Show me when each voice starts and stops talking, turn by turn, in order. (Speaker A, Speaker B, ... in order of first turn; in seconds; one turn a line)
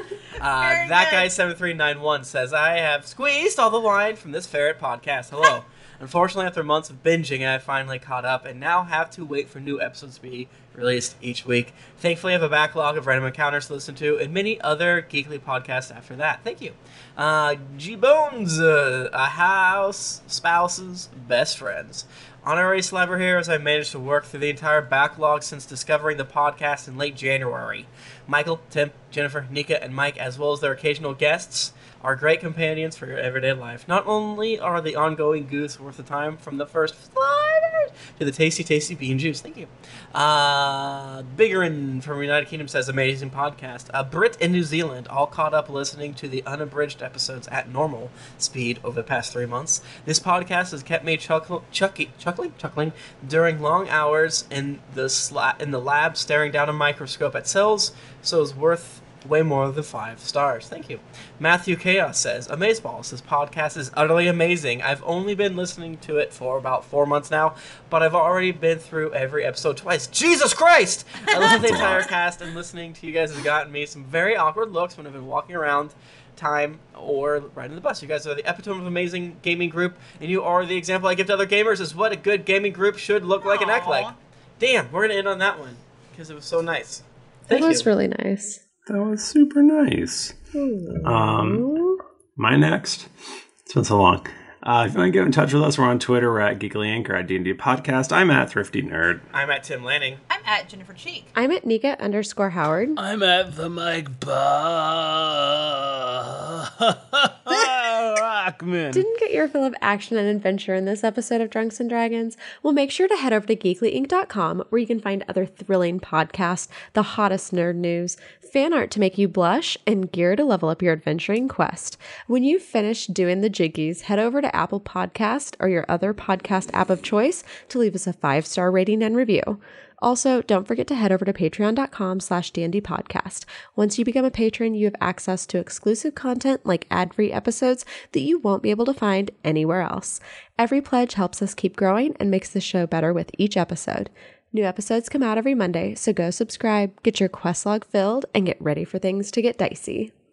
Speaker A: 0.4-87.9
Speaker B: 0.6-1.3
Speaker C: 71.4-72.1
Speaker B: 83.4-84.2
Speaker D: 87.5-88.6
Speaker C: 88.9-90.3
Speaker D: 90.5-92.0
Speaker C: 91.0-91.7
Speaker C: 92.3-93.1
Speaker C: 93.7-99.2
Speaker A: 99.3-100.2
Speaker B: 100.3-101.3
Speaker D: 101.3-103.0
Speaker E: 103.0-109.0
Speaker D: 108.9-150.1